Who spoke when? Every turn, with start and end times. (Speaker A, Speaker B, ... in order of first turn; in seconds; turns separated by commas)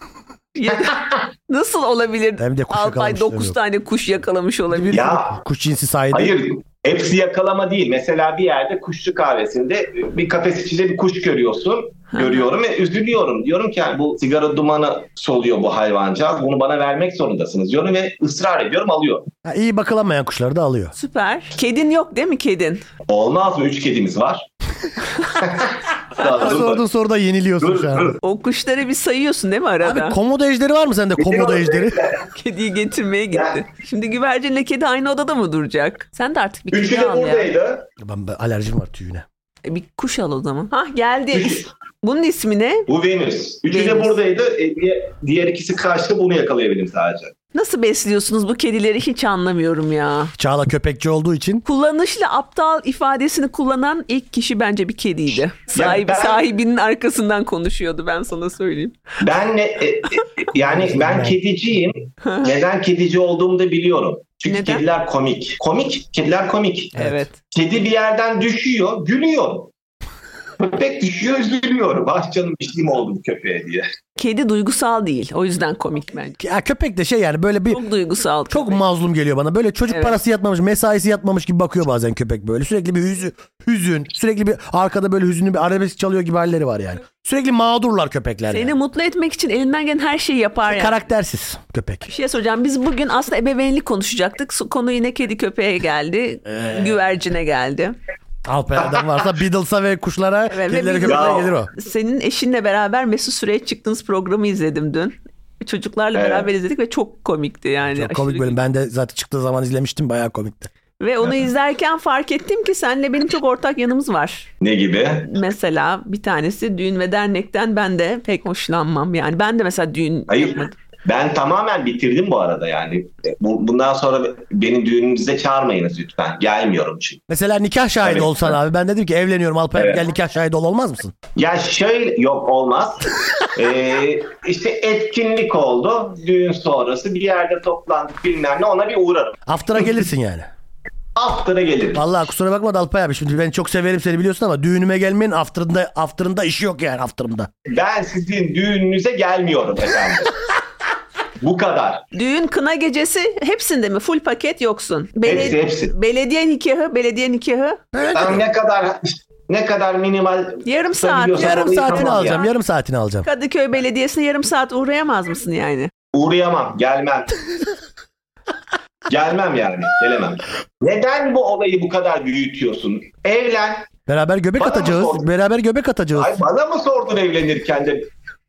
Speaker A: 0.5-5.1, Speaker B: 2.4-3.5, Speaker B: 4.7-6.3, Speaker C: 4.9-5.3, Speaker C: 6.1-19.3, Speaker A: 12.1-12.5, Speaker B: 19.4-20.9, Speaker A: 20.9-22.8, Speaker C: 23.1-24.4, Speaker C: 25.3-26.8, Speaker B: 26.2-28.2, Speaker C: 27.6-28.2, Speaker A: 28.2-30.1, Speaker B: 29.8-32.0, Speaker C: 31.2-32.2, Speaker A: 32.3-37.5, Speaker C: 36.7-37.9, Speaker B: 38.0-39.2, Speaker A: 39.6-42.9, Speaker C: 41.3-41.6, Speaker C: 42.9-47.3, Speaker A: 43.7-44.1, Speaker A: 47.5-50.3, Speaker B: 50.4-51.6, Speaker A: 51.6-59.0, Speaker C: 55.7-56.4, Speaker C: 59.2-69.7, Speaker B: 60.7-61.3, Speaker A: 62.2-62.5, Speaker A: 64.5-64.8, Speaker A: 67.0-67.3, Speaker C: 70.6-73.9, Speaker A: 74.2-76.4, Speaker B: 76.4-77.8, Speaker A: 77.7-78.8, Speaker B: 78.5-88.7, Speaker A: 79.9-80.2, Speaker A: 88.5-91.0, Speaker B: 90.7-92.1, Speaker A: 92.1-98.0, Speaker B: 96.5-97.0, Speaker B: 98.4-101.7, Speaker A: 100.5-108.6, Speaker C: 101.0-101.5, Speaker C: 106.1-106.5, Speaker B: 107.8-110.7, Speaker A: 111.0-114.5, Speaker C: 114.6-115.3, Speaker A: 115.2-120.7, Speaker C: 120.3-127.2, Speaker B: 127.3-131.1, Speaker C: 128.0-128.6, Speaker C: 129.8-130.0, Speaker C: 131.3-139.4, Speaker B: 139.5-140.5, Speaker C: 141.2-142.0, Speaker B: 141.9-147.5, Speaker C: 147.7-150.4, Speaker C: 151.4-152.0, Speaker A: 152.1-157.8, Speaker C: 155.2-155.9, Speaker B: 157.9-158.4, Speaker C: 158.1-162.4, Speaker A: 160.6-162.4, Speaker B: 161.4-163.3, Speaker A: 163.2-165.9, Speaker C: 166.1-167.3, Speaker C: 169.1-173.9, Speaker B: 174.1-176.3, Speaker C: 174.6-175.3, Speaker C: 176.1-178.1